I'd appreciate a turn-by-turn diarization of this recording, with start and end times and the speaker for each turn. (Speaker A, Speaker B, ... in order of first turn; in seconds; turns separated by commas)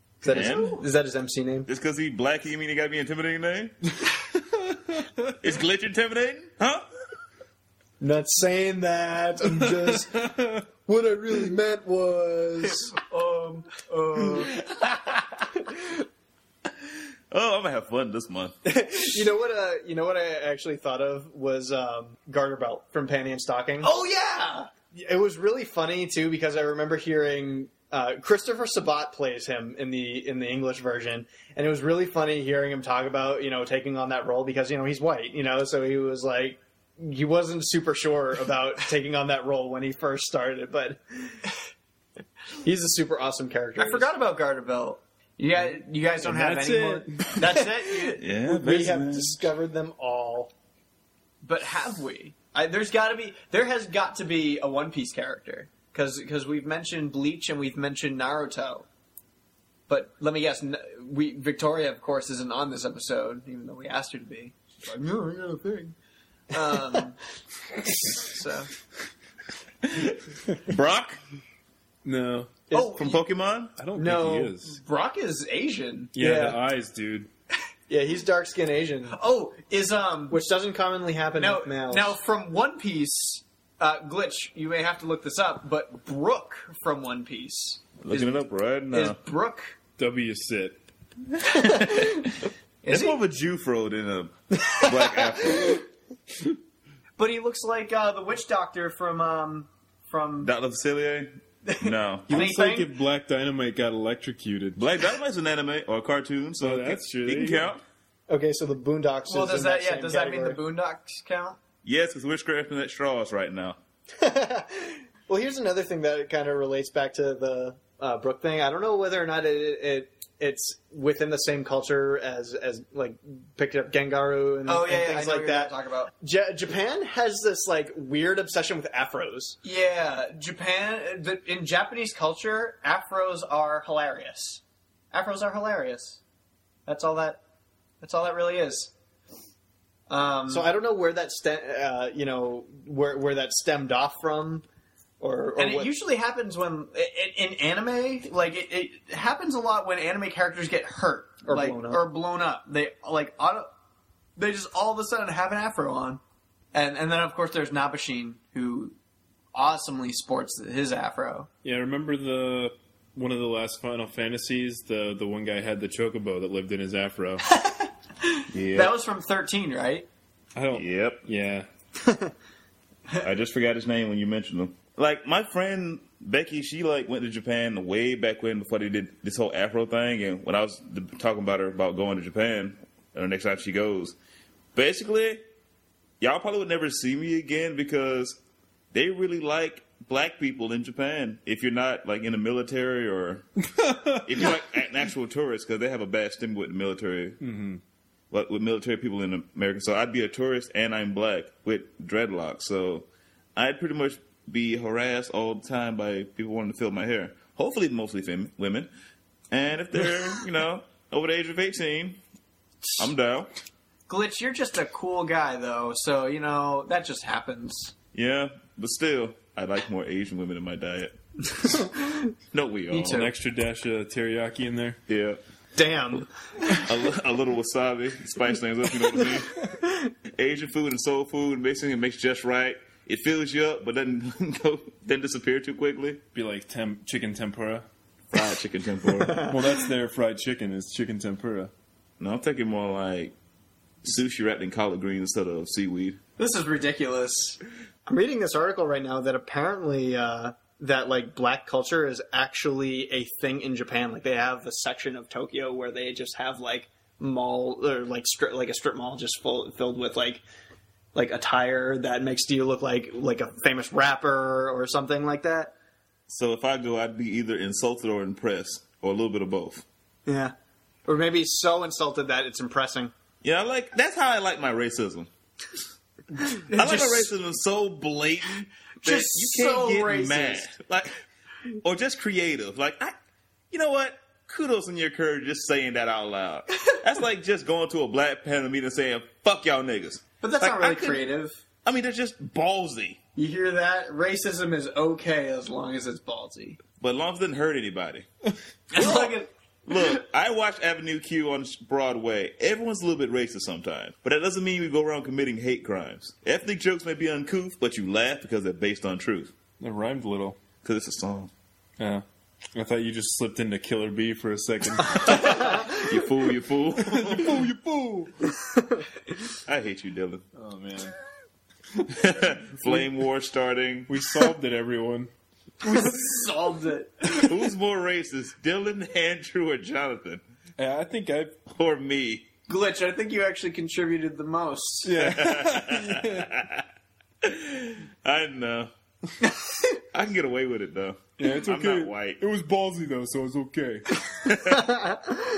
Speaker A: 0.2-1.7, Speaker B: 0.3-0.6, Speaker C: 0.3-0.8, Speaker C: 1.7-3.8, Speaker C: 5.4-6.8, Speaker A: 8.0-10.3, Speaker D: 9.5-10.6, Speaker A: 10.9-12.9, Speaker B: 13.0-14.6, Speaker C: 17.3-18.6, Speaker A: 18.6-23.9, Speaker B: 23.8-24.7, Speaker A: 24.9-41.4, Speaker A: 42.6-44.1, Speaker B: 43.8-48.2, Speaker D: 46.2-47.4, Speaker C: 48.2-49.4, Speaker A: 48.4-50.5, Speaker B: 51.4-58.9, Speaker B: 59.9-65.9, Speaker B: 66.5-67.2, Speaker B: 67.9-68.7, Speaker C: 69.9-71.2, Speaker D: 72.0-72.6, Speaker A: 72.7-73.0, Speaker B: 72.7-73.2, Speaker C: 72.8-73.8, Speaker D: 73.8-74.8, Speaker B: 74.0-76.6, Speaker D: 76.2-77.3, Speaker A: 77.9-79.2, Speaker B: 79.1-80.4, Speaker A: 80.3-82.2, Speaker B: 81.3-88.4, Speaker C: 88.0-89.2, Speaker B: 88.9-89.8, Speaker D: 90.0-90.8, Speaker C: 91.4-92.3, Speaker B: 92.8-93.2, Speaker C: 92.9-95.8, Speaker B: 97.2-100.5, Speaker C: 100.4-102.3, Speaker B: 101.7-102.8, Speaker D: 102.3-104.8, Speaker A: 102.3-102.7, Speaker C: 104.8-107.8, Speaker D: 106.6-107.7, Speaker A: 108.3-110.6, Speaker B: 109.3-111.6, Speaker C: 111.8-113.8, Speaker A: 114.2-129.6, Speaker B: 124.7-126.1, Speaker B: 129.6-136.2, Speaker B: 136.9-137.4, Speaker B: 138.0-138.9, Speaker B: 140.1-140.7, Speaker A: 140.5-144.7, Speaker A: 145.2-145.9, Speaker B: 145.6-153.7, Speaker A: 151.4-152.0, Speaker B: 154.4-156.2, Speaker B: 156.7-158.9, Speaker B: 159.5-161.5, Speaker D: 161.6-167.5, Speaker B: 167.5-170.1, Speaker C: 168.5-169.0, Speaker D: 170.6-171.7, Speaker C: 170.7-171.2, Speaker A: 172.0-172.3, Speaker C: 173.2-184.2, Speaker C: 184.8-185.4, Speaker C: 186.2-188.4, Speaker C: 188.9-193.5, Speaker D: 193.8-194.5, Speaker C: 194.2-197.4, Speaker D: 197.4-197.8, Speaker C: 198.3-208.9, Speaker C: 209.5-212.2, Speaker C: 213.0-213.5, Speaker B: 214.1-217.9, Speaker C: 218.1-221.9, Speaker C: 222.5-223.3, Speaker B: 222.9-223.2, Speaker D: 223.0-225.0, Speaker C: 225.1-225.4, Speaker A: 225.8-226.3, Speaker C: 226.8-229.8, Speaker C: 230.4-236.2, Speaker D: 236.3-237.9, Speaker C: 238.3-239.5, Speaker A: 239.2-239.5, Speaker D: 239.4-241.7, Speaker C: 242.2-243.3, Speaker C: 244.0-246.2, Speaker B: 246.4-247.6, Speaker A: 248.1-260.4, Speaker A: 261.1-265.7, Speaker C: 266.3-269.9, Speaker A: 270.3-270.5, Speaker A: 271.1-273.1, Speaker C: 273.4-275.3, Speaker B: 276.7-277.3, Speaker C: 276.7-281.2, Speaker B: 279.0-280.7, Speaker C: 281.8-283.1, Speaker C: 283.7-291.3, Speaker B: 290.4-291.6, Speaker C: 291.9-293.2, Speaker B: 293.4-296.8, Speaker C: 297.0-298.3, Speaker B: 298.9-300.2, Speaker C: 298.9-299.4, Speaker C: 299.9-309.5, Speaker D: 309.8-310.6, Speaker C: 310.8-311.5, Speaker D: 312.0-315.7, Speaker C: 315.2-317.6, Speaker D: 317.0-318.5, Speaker C: 319.6-320.4, Speaker D: 320.6-321.1, Speaker C: 322.1-324.1, Speaker D: 324.1-325.3, Speaker B: 325.8-327.5, Speaker C: 327.3-330.4, Speaker D: 330.8-331.6, Speaker C: 331.7-332.5, Speaker B: 332.7-335.2, Speaker D: 335.0-336.5, Speaker C: 335.2-336.9, Speaker C: 337.4-338.9, Speaker C: 340.1-342.4, Speaker D: 341.4-344.2, Speaker C: 344.4-345.2